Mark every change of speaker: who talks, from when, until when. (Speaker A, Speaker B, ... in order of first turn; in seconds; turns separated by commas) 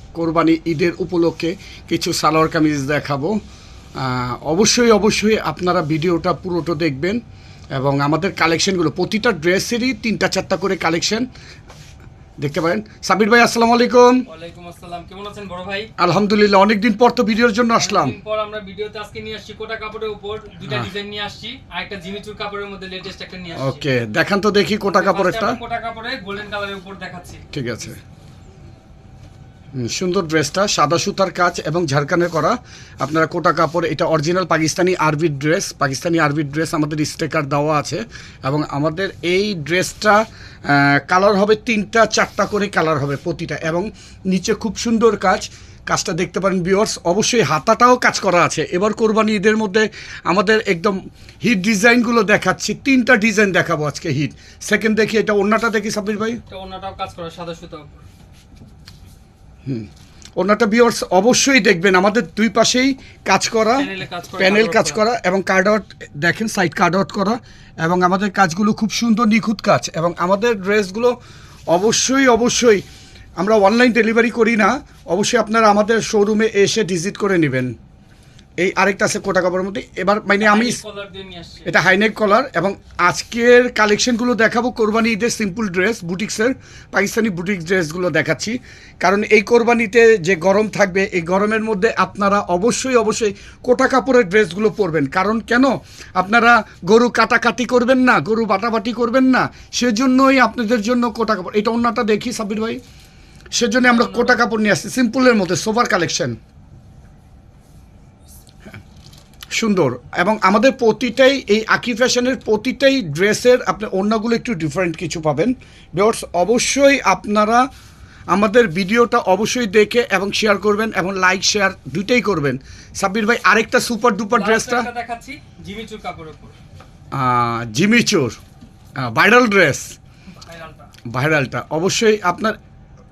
Speaker A: 0.1-3.4, Speaker A: 4.0-7.2, Speaker A: 7.7-11.3, Speaker A: 12.4-14.2, Speaker B: 14.2-15.9, Speaker A: 16.0-18.1, Speaker B: 17.8-23.8, Speaker A: 23.6-25.6, Speaker B: 24.8-27.4, Speaker A: 27.5-28.0, Speaker A: 29.7-56.4, Speaker B: 56.5-58.0, Speaker A: 59.6-71.2, Speaker B: 63.7-65.0, Speaker A: 71.7-72.8, Speaker A: 73.4-77.7, Speaker A: 78.6-80.8, Speaker B: 80.4-81.8, Speaker A: 81.7-102.8, Speaker A: 103.5-106.3, Speaker B: 103.8-104.4, Speaker A: 109.5-117.7, Speaker A: 118.3-124.9, Speaker B: 124.3-126.5, Speaker A: 127.1-128.4, Speaker A: 129.0-129.9, Speaker B: 130.3-130.9, Speaker A: 131.1-132.6